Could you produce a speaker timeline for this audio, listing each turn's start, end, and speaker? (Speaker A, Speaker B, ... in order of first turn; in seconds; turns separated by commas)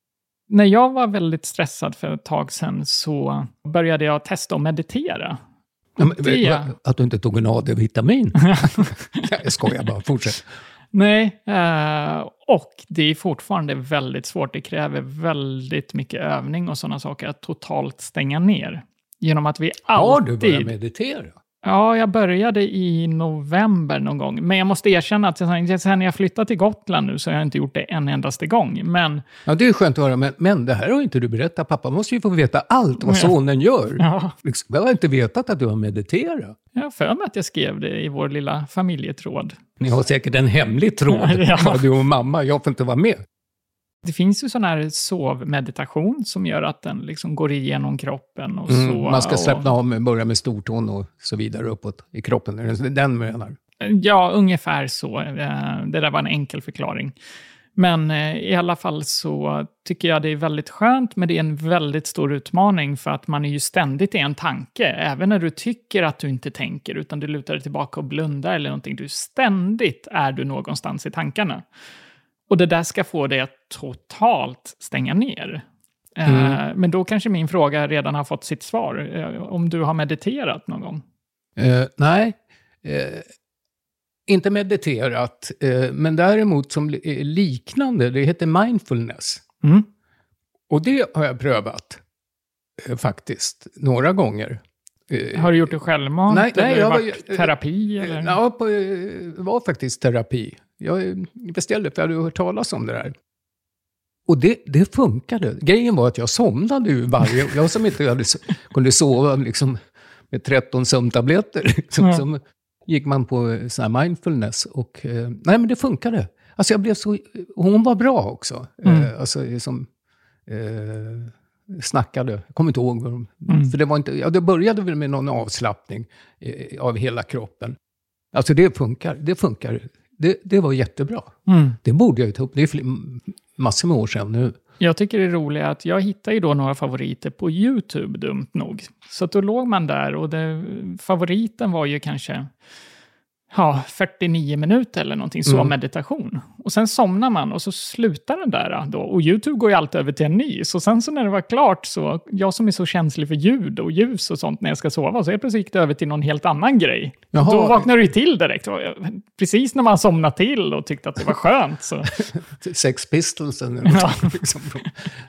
Speaker A: 0.5-5.4, Speaker B: 6.0-10.4, Speaker A: 6.0-6.7, Speaker A: 8.5-9.2, Speaker A: 10.9-20.7, Speaker B: 19.9-21.4, Speaker A: 21.6-29.2, Speaker B: 29.5-36.6, Speaker A: 33.0-33.3, Speaker A: 34.0-34.3, Speaker A: 36.8-39.6, Speaker B: 39.8-43.2, Speaker A: 41.1-41.8, Speaker A: 44.0-49.7, Speaker B: 48.7-53.6, Speaker A: 53.8-57.1, Speaker A: 57.8-71.7, Speaker A: 72.5-75.6, Speaker A: 76.2-81.0, Speaker B: 76.3-76.6, Speaker B: 81.6-83.3, Speaker B: 84.3-89.4, Speaker B: 90.7-92.0, Speaker B: 92.8-95.7, Speaker A: 95.3-98.4, Speaker B: 96.3-103.2, Speaker B: 104.3-109.8, Speaker B: 110.3-119.9, Speaker A: 118.8-119.1, Speaker B: 120.5-127.8, Speaker A: 123.5-123.7, Speaker B: 128.3-134.6, Speaker A: 131.5-131.8, Speaker A: 134.8-142.5, Speaker A: 143.5-162.1, Speaker B: 145.5-145.7, Speaker B: 157.3-157.9, Speaker B: 162.6-164.9, Speaker A: 163.9-164.3